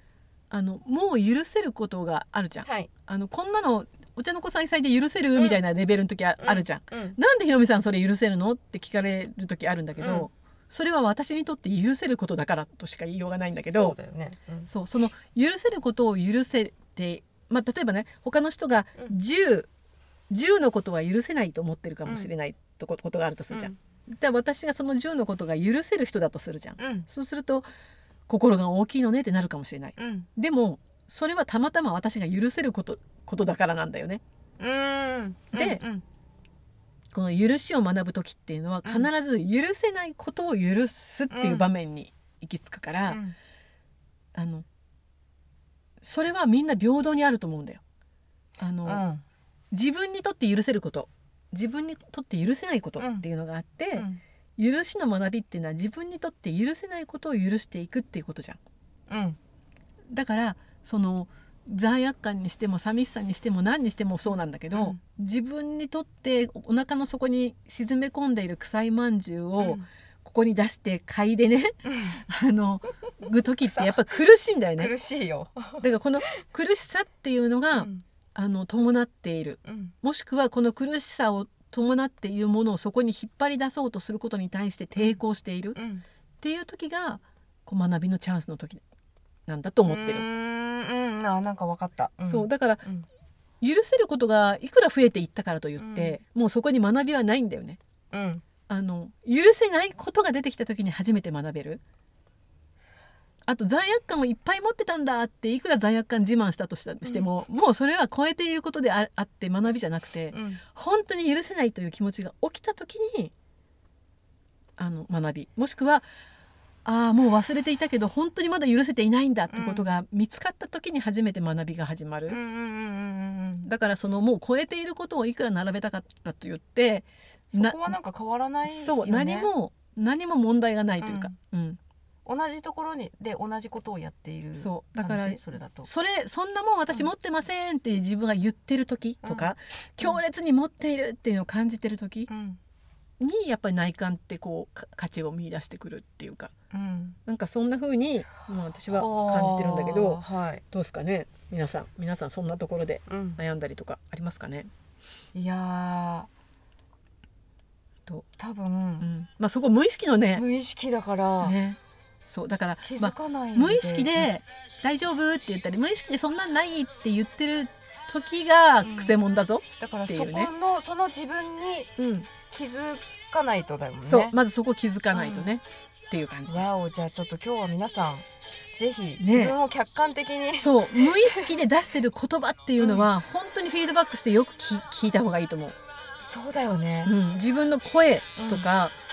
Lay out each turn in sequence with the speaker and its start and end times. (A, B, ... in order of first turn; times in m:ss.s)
0:00.5-0:13.9 A
0:02.6-0:02.9 B
0:06.4-0:07.2 B
0:10.0-0:10.3 B
0:13.6-0:14.7 B
0:14.7-0:19.7 A
0:20.3-0:27.6 A
0:23.5-0:23.7 B
0:26.8-0:27.1 B
0:28.3-0:34.2 A
0:30.0-0:30.3 B
0:34.6-0:36.0 B
0:35.5-0:35.8 A
0:37.1-0:43.2 A
0:41.3-0:41.7 B
0:43.1-0:43.3 B
0:44.3-0:44.6 A
0:46.0-0:47.8 A
0:48.6-0:49.0 A
0:48.8-0:49.2 B
0:49.7-0:58.6 A
0:53.0-0:53.2 B
0:53.9-0:54.2 B
0:59.1-0:59.4 B
1:00.1-1:14.9 A
1:04.3-1:05.0 B
1:09.6-1:09.8 B
1:11.8-1:12.2 B
1:13.7-1:14.2 B
1:14.8-1:16.3 B
1:15.8-1:25.8 A
1:17.7-1:18.0 B
1:19.6-1:19.9 B
1:25.8-1:26.0 B
1:26.4-1:28.8 A
1:29.5-1:30.3 A
1:29.9-1:33.0 B
1:32.2-1:32.8 A
1:33.6-1:37.8 A
1:35.8-1:36.2 B
1:38.1-1:38.4 B
1:38.7-1:41.8 A
1:43.5-1:53.3 A
1:50.3-1:50.6 B
1:54.8-1:56.0 A
1:56.8-2:02.4 A
1:59.5-1:59.8 B
2:02.3-2:03.7 B
2:03.6-2:08.0 A
2:07.5-2:09.5 B
2:08.6-2:11.8 A
2:11.0-2:11.3 B
2:12.2-2:15.9 B
2:14.6-2:22.3 A
2:19.2-2:20.2 B
2:22.3-2:22.6 B
2:23.2-2:26.5 A
2:26.7-2:27.2 B
2:27.2-2:34.7 A
2:28.9-2:30.6 B
2:33.1-2:33.4 B
2:35.3-2:36.3 B
2:38.4-2:39.1 B
2:39.0-2:40.4 A
2:40.3-2:41.6 B
2:41.4-2:50.5 A
2:42.8-2:44.3 B
2:48.8-2:49.1 B
2:49.8-2:51.9 B
2:52.0-2:52.3 A
2:52.4-2:54.4 B
2:54.0-2:56.7 A
2:55.1-2:55.5 B
2:56.5-3:01.6 B
2:59.2-2:59.5 A
3:00.6-3:05.8 A
3:02.8-3:03.1 B
3:06.2-3:07.1 B
3:07.0-3:08.9 A
3:08.4-3:08.7 B